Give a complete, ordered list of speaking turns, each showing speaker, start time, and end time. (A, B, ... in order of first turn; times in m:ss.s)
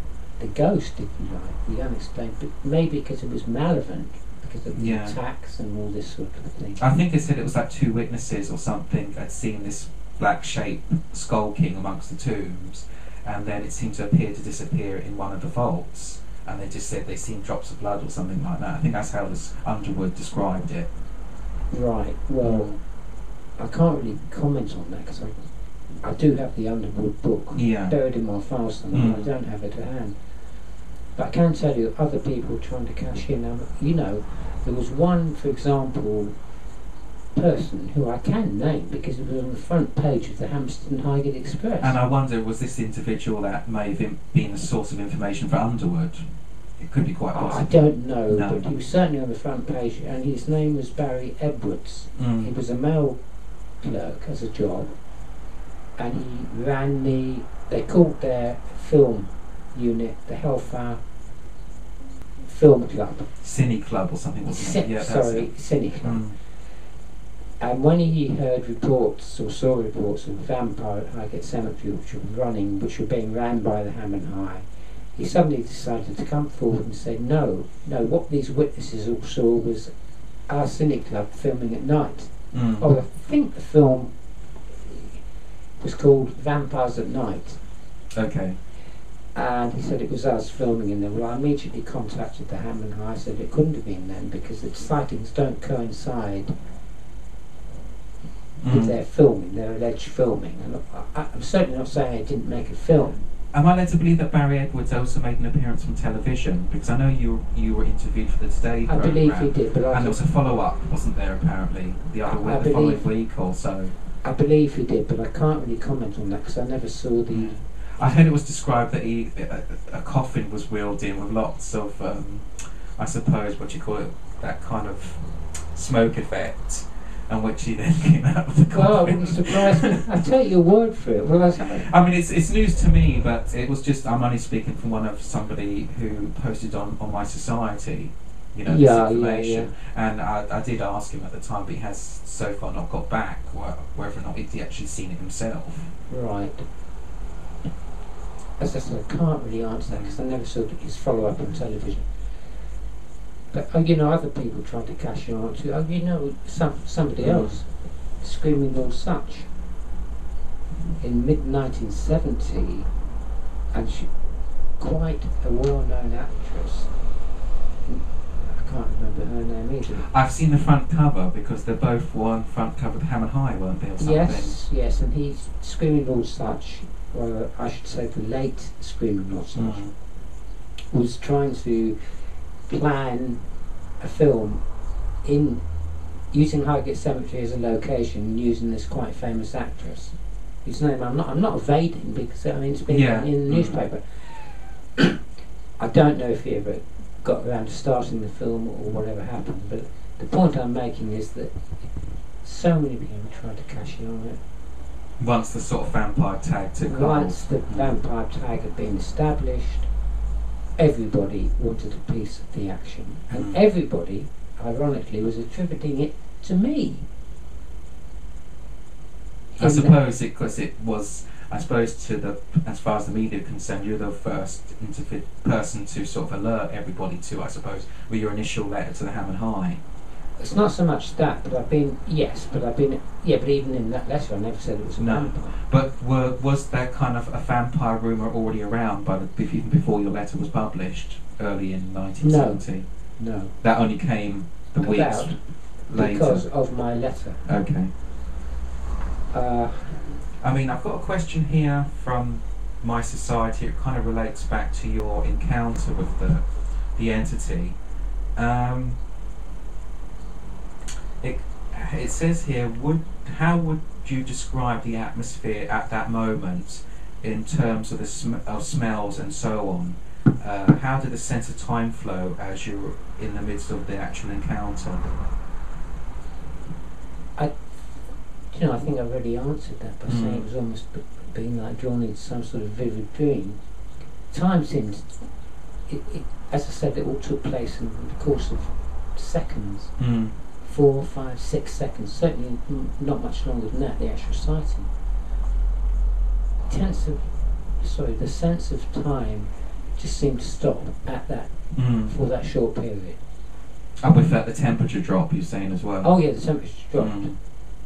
0:00.4-0:06.8 A
0:04.8-0:05.2 B
0:06.8-0:20.9 B
0:21.7-0:22.8 A
0:23.6-0:25.3 A
0:26.0-0:30.2 A
0:27.6-0:28.0 B
0:28.9-0:29.3 B
0:31.2-0:36.4 A
0:37.4-0:42.0 A
0:41.8-0:46.3 B
0:46.8-0:47.8 B
0:47.3-0:53.2 A
0:48.3-0:48.7 B
0:52.2-0:52.5 B
0:53.8-0:54.9 A
0:56.0-1:01.0 A
1:02.4-1:03.3 A
1:03.4-1:05.5 B
1:04.5-1:06.2 A
1:06.0-1:06.4 B
1:07.6-1:19.9 A
1:20.5-1:24.1 A
1:22.5-1:22.9 B
1:24.7-1:25.2 A
1:25.8-1:27.6 A
1:28.2-1:28.6 B
1:29.4-1:36.5 A
1:38.6-1:39.0 B
1:38.7-1:43.2 A
1:43.5-1:53.9 B
1:48.9-1:50.3 A
1:52.3-1:53.0 A
1:54.2-1:58.3 A
1:57.3-2:10.1 B
2:08.7-2:11.9 A
2:11.6-2:25.9 B
2:18.7-2:19.7 A
2:26.1-2:26.7 A
2:28.6-2:32.1 A
2:29.9-2:30.2 B
2:33.5-2:39.5 A
2:37.2-2:37.5 B
2:41.0-2:42.9 A
2:43.7-2:44.1 A
2:44.8-2:46.9 A
2:47.9-2:50.1 A
2:50.0-2:54.6 B
2:54.0-2:59.9 A
2:59.6-2:59.9 B
3:00.9-3:02.0 A
3:02.7-3:03.4 A
3:04.0-3:04.6 A
3:05.2-3:05.6 A
3:06.3-3:15.2 A
3:12.9-3:13.8 B
3:15.8-3:21.5 A
3:22.4-3:24.4 A
3:25.2-3:27.9 B
3:26.9-3:29.9 A
3:30.8-3:37.1 A
3:33.3-3:33.6 B
3:39.6-3:40.0 A
3:39.6-3:49.8 B
3:50.4-3:55.6 A
3:55.0-4:02.9 B
4:02.2-4:02.6 A
4:03.2-4:03.5 A
4:03.6-4:05.3 B
4:04.8-4:05.4 A
4:05.9-4:06.4 B
4:05.9-4:07.4 A
4:07.5-4:07.9 B
4:09.3-4:10.2 A
4:10.4-4:17.8 B
4:18.4-4:19.0 B
4:21.2-4:35.1 B
4:38.5-4:43.6 A
4:40.1-4:40.5 B
4:44.3-4:45.2 A
4:45.9-4:49.9 A
4:50.0-4:50.3 B
4:50.6-4:54.9 A
4:56.7-5:01.6 A
5:01.8-5:02.1 B
5:02.1-5:03.2 A
5:04.0-5:06.1 B
5:06.0-5:07.3 A
5:07.0-5:07.4 B